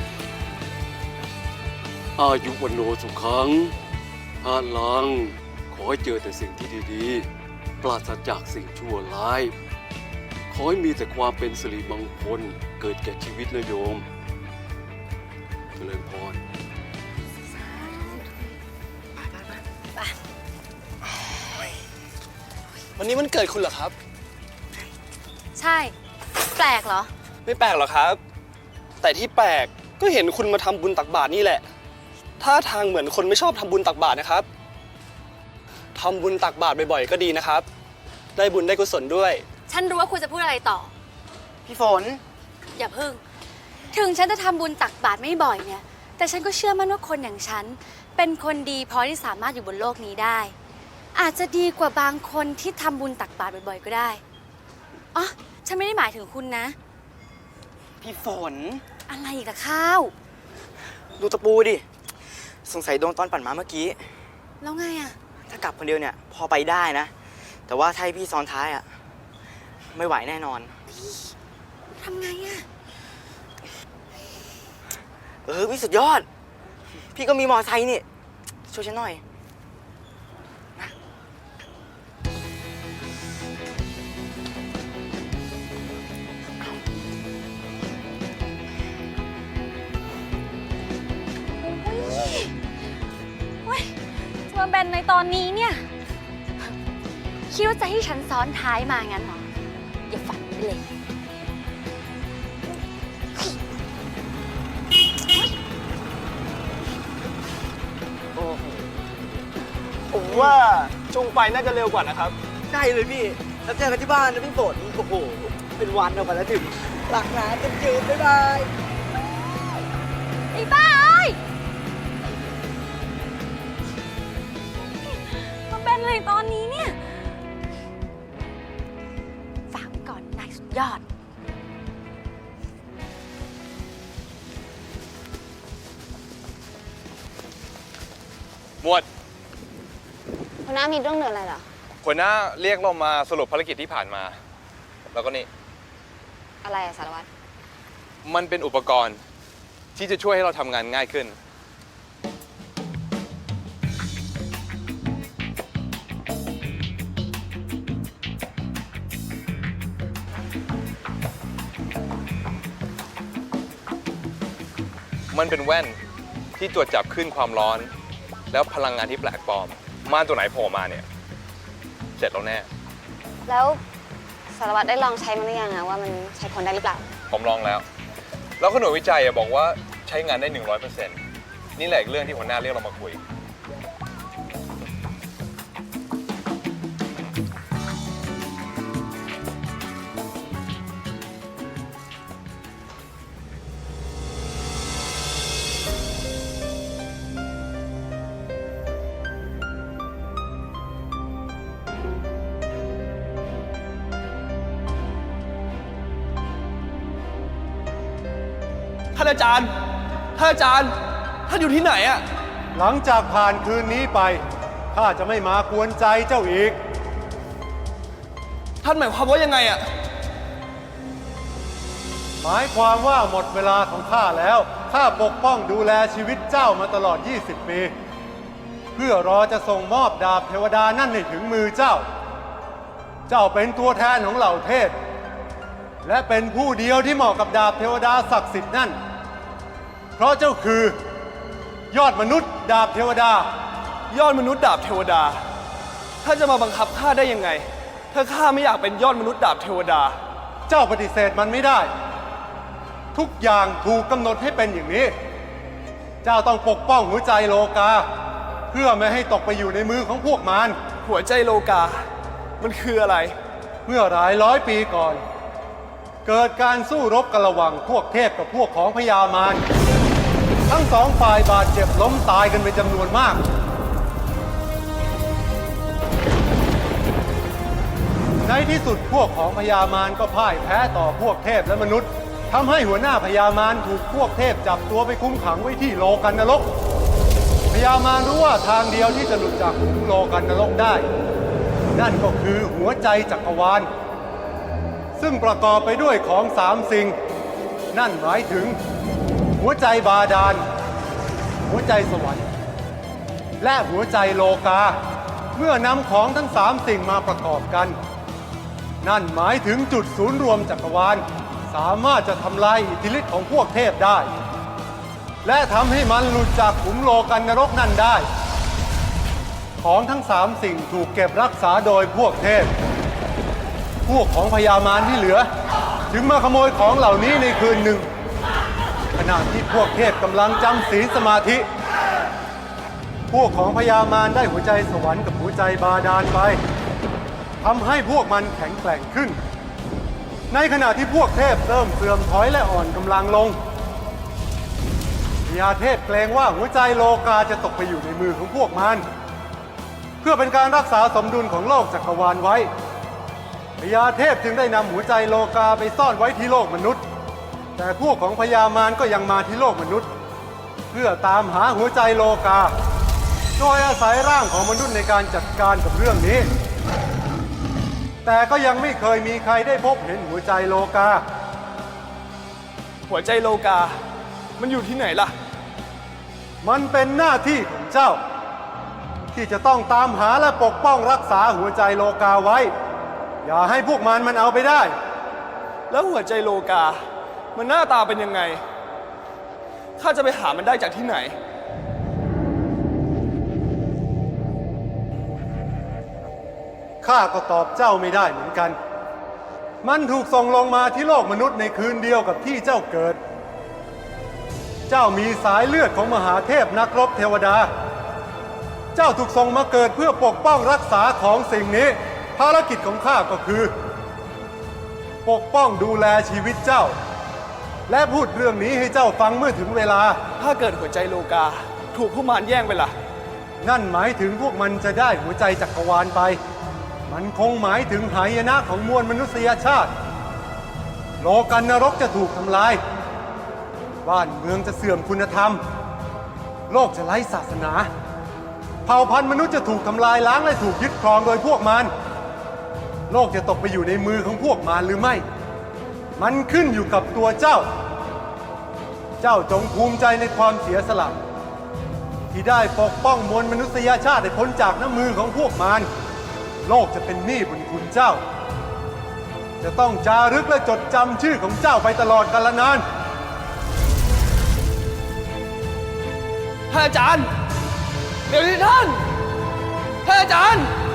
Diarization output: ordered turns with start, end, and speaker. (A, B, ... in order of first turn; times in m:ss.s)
0:02.2-0:03.7 A
0:04.4-0:07.3 A
0:07.8-0:09.5 A
0:10.5-0:14.0 A
0:15.7-0:16.4 A
0:17.6-0:18.1 B
0:17.9-0:18.1 C
0:19.1-0:19.6 B
0:23.0-0:23.9 D
0:25.6-0:25.9 C
0:26.5-0:27.1 C
0:27.4-0:28.2 D
0:29.0-0:31.6 D
0:32.4-0:34.5 D
0:35.9-0:37.6 D
0:38.4-0:39.4 D
0:39.7-0:40.9 C
0:41.6-0:42.2 B
0:42.8-0:43.2 C
0:43.9-0:50.5 C
0:51.1-0:54.2 C
0:55.1-0:56.7 C
0:58.0-0:58.8 B
0:59.1-1:00.1 C
1:01.1-1:01.8 B
1:02.5-1:04.1 B
1:04.6-1:05.1 C
1:05.5-1:08.9 B
1:09.9-1:10.8 B
1:10.9-1:11.3 C
1:11.9-1:12.6 C
1:15.4-1:16.3 B
1:17.1-1:18.0 B
1:18.6-1:19.2 B
1:31.6-1:32.5 C
1:33.6-1:34.0 C
1:34.5-1:35.8 C
1:37.5-1:39.4 C
1:40.1-1:40.9 C
1:50.1-1:52.3 D
1:52.7-1:53.1 B
2:00.5-2:01.4 C
2:04.9-2:07.4 C
2:09.7-2:11.0 C
2:18.8-2:19.1 E
2:20.6-2:21.6 F
2:22.0-2:24.4 E
2:25.1-2:25.5 E
2:26.6-2:27.3 F
2:28.2-2:29.2 E
2:29.9-2:31.4 E
2:45.3-2:46.0 E
2:46.6-2:47.9 E
2:48.5-2:51.0 E
2:52.2-2:52.7 E
2:53.5-2:53.8 F
2:54.5-2:57.1 F
2:57.3-2:57.8 E
2:58.6-3:01.2 E
3:01.8-3:03.2 E
3:29.1-3:29.7 D
3:30.4-3:30.9 D
3:31.5-3:32.2 D
3:32.8-3:36.8 G
3:38.8-3:39.8 D
3:42.4-3:47.9 G
3:49.0-3:52.0 G
3:53.3-3:54.9 G
3:56.0-3:59.0 G
4:00.2-4:01.0 G
4:01.9-4:03.5 G
4:04.1-4:05.4 D
4:06.2-4:10.2 D
4:10.7-4:11.9 G
4:13.1-4:15.1 G
4:16.2-4:18.1 G
4:18.7-4:20.8 G
4:21.0-4:22.0 D
4:22.6-4:23.3 D
4:23.8-4:25.2 G
4:26.2-4:29.6 G
4:30.7-4:33.4 G
4:38.4-4:46.7 G
4:47.7-4:51.1 G
4:51.9-4:53.9 G
4:55.2-4:57.2 G
4:57.9-4:58.8 G
4:59.6-5:00.6 G
5:01.7-5:02.5 G
5:03.6-5:05.0 G
5:05.6-5:08.0 G
5:09.0-5:14.3 G
5:15.4-5:18.2 G
5:19.8-5:22.7 G
5:24.0-5:25.5 G
5:26.1-5:28.1 G
5:29.2-5:31.6 G
5:33.3-5:36.6 G
5:37.6-5:39.4 G
5:40.5-5:43.6 G
5:45.4-5:49.0 G
5:50.2-5:52.7 G
5:53.8-5:57.0 G
5:57.8-6:00.1 G
6:00.9-6:02.7 G
6:03.6-6:06.5 G
6:08.2-6:11.2 G
6:13.1-6:14.0 D
6:14.6-6:15.3 D
6:16.6-6:18.2 G
6:19.3-6:22.7 G
6:23.4-6:24.9 G
6:25.9-6:27.0 D
6:27.5-6:28.6 D
6:30.0-6:31.4 D
6:37.0-6:38.8 G
6:39.8-6:43.2 G
6:44.9-6:47.7 G
6:48.9-6:53.7 G
6:55.2-6:56.9 G
6:57.9-7:00.2 G
7:00.4-7:02.9 D
7:03.6-7:06.4 G
7:07.1-7:09.9 G
7:11.2-7:12.8 G
7:14.0-7:15.6 G
7:16.7-7:17.9 G
7:18.8-7:21.9 G
7:23.1-7:25.2 G
7:26.2-7:27.7 G
7:29.2-7:31.2 G
7:32.3-7:35.9 G
7:36.6-7:38.2 G
7:39.6-7:42.8 G
7:46.7-7:47.3 D
7:48.3-7:49.0 D
7:50.0-7:50.7 D